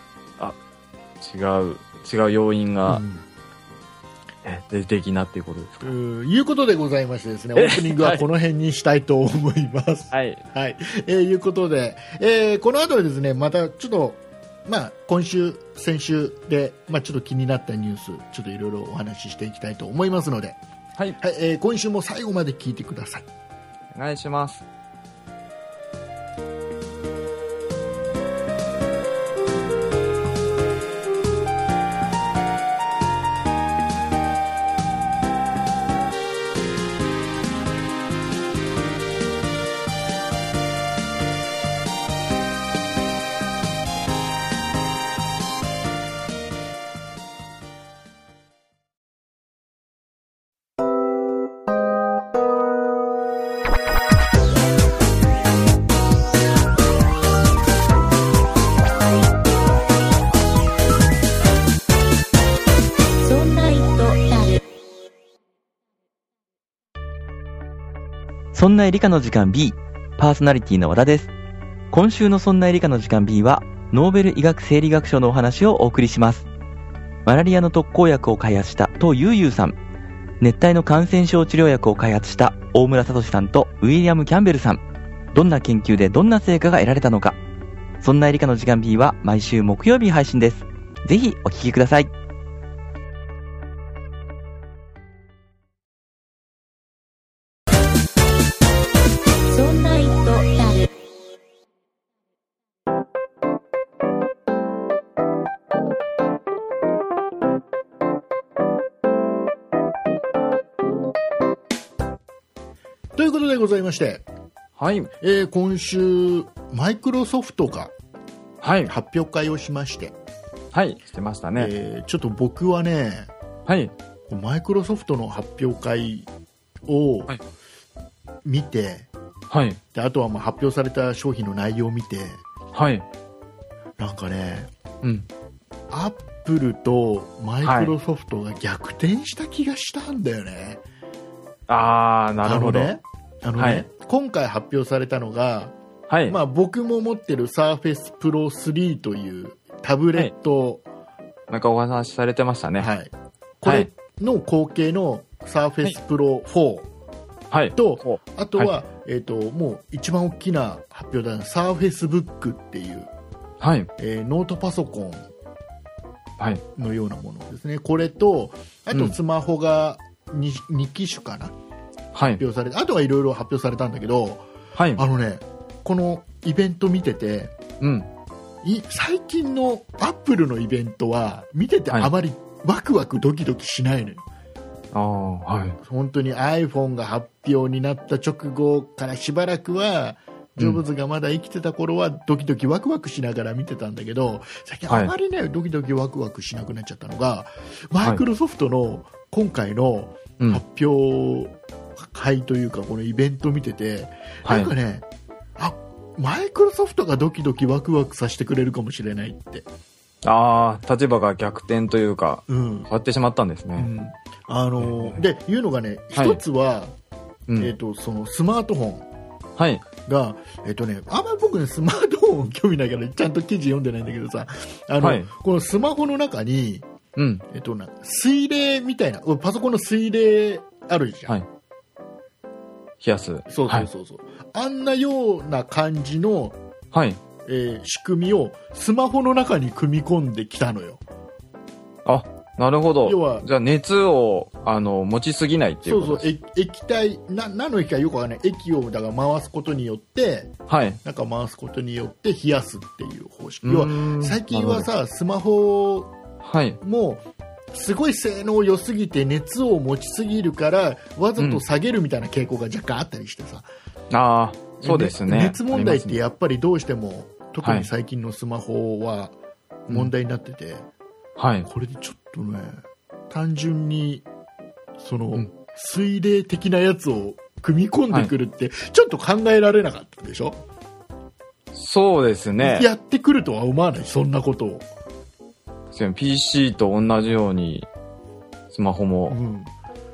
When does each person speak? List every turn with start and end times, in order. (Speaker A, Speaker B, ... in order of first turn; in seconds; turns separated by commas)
Speaker A: 1.2-3.0, Speaker B: 2.9-3.2, Speaker A: 4.4-5.9, Speaker B: 5.8-20.6, Speaker A: 7.5-8.2, Speaker A: 10.1-10.4, Speaker B: 21.2-23.2, Speaker A: 23.9-24.6, Speaker C: 63.2-64.6, Speaker D: 68.5-71.3, Speaker D: 71.9-76.5, Speaker D: 77.2-79.8, Speaker D: 80.4-84.8, Speaker D: 85.3-87.3, Speaker D: 88.0-92.1, Speaker C: 99.5-100.9, Speaker B: 113.2-114.2, Speaker A: 114.8-115.1, Speaker B: 115.2-117.9, Speaker A: 118.6-118.9, Speaker B: 118.9-120.1, Speaker A: 120.7-121.7, Speaker B: 121.6-123.3, Speaker A: 123.7-123.9, Speaker B: 124.3-126.3, Speaker B: 126.9-127.3, Speaker B: 128.4-129.1, Speaker A: 129.5-129.8, Speaker B: 129.9-132.4, Speaker A: 132.7-133.1, Speaker B: 134.0-134.7, Speaker A: 135.0-135.3, Speaker B: 135.9-140.8, Speaker A: 137.6-137.9, Speaker A: 141.7-142.9, Speaker B: 142.4-145.7, Speaker A: 143.6-143.8, Speaker A: 146.1-146.4, Speaker B: 146.3-150.8, Speaker A: 151.5-152.9, Speaker B: 152.8-156.9, Speaker A: 157.5-158.7, Speaker B: 157.7-163.1, Speaker A: 163.6-163.9, Speaker B: 164.0-165.3, Speaker B: 166.7-171.5, Speaker A: 172.1-172.4, Speaker B: 172.4-177.5, Speaker A: 174.7-175.0, Speaker A: 177.8-178.1, Speaker B: 178.6-184.2, Speaker A: 184.9-185.8, Speaker B: 185.8-205.1, Speaker A: 204.4-204.7, Speaker B: 205.6-209.7, Speaker A: 210.2-213.9, Speaker B: 212.5-212.9, Speaker B: 213.8-216.9, Speaker A: 214.8-215.2, Speaker A: 216.2-216.4, Speaker A: 217.5-217.7, Speaker B: 217.6-219.1, Speaker A: 219.6-219.8, Speaker B: 220.0-226.8, Speaker A: 225.0-225.3, Speaker A: 227.2-227.4, Speaker B: 227.5-231.4, Speaker A: 233.0-233.9, Speaker B: 233.5-236.6, Speaker A: 236.9-237.2, Speaker B: 237.4-241.0, Speaker A: 242.0-246.3, Speaker B: 243.0-243.4, Speaker B: 245.8-250.5, Speaker A: 250.7-251.0, Speaker B: 251.0-256.1, Speaker A: 253.6-254.9, Speaker A: 256.4-256.8, Speaker B: 256.8-263.7, Speaker A: 261.4-261.6, Speaker A: 264.1-266.2, Speaker B: 264.8-269.3, Speaker A: 267.6-267.9, Speaker B: 269.9-270.9, Speaker A: 271.4-271.7, Speaker B: 271.6-274.2, Speaker B: 275.0-280.6, Speaker A: 281.7-282.9, Speaker B: 282.6-284.9, Speaker A: 285.9-287.9, Speaker A: 288.7-289.4, Speaker B: 289.3-289.7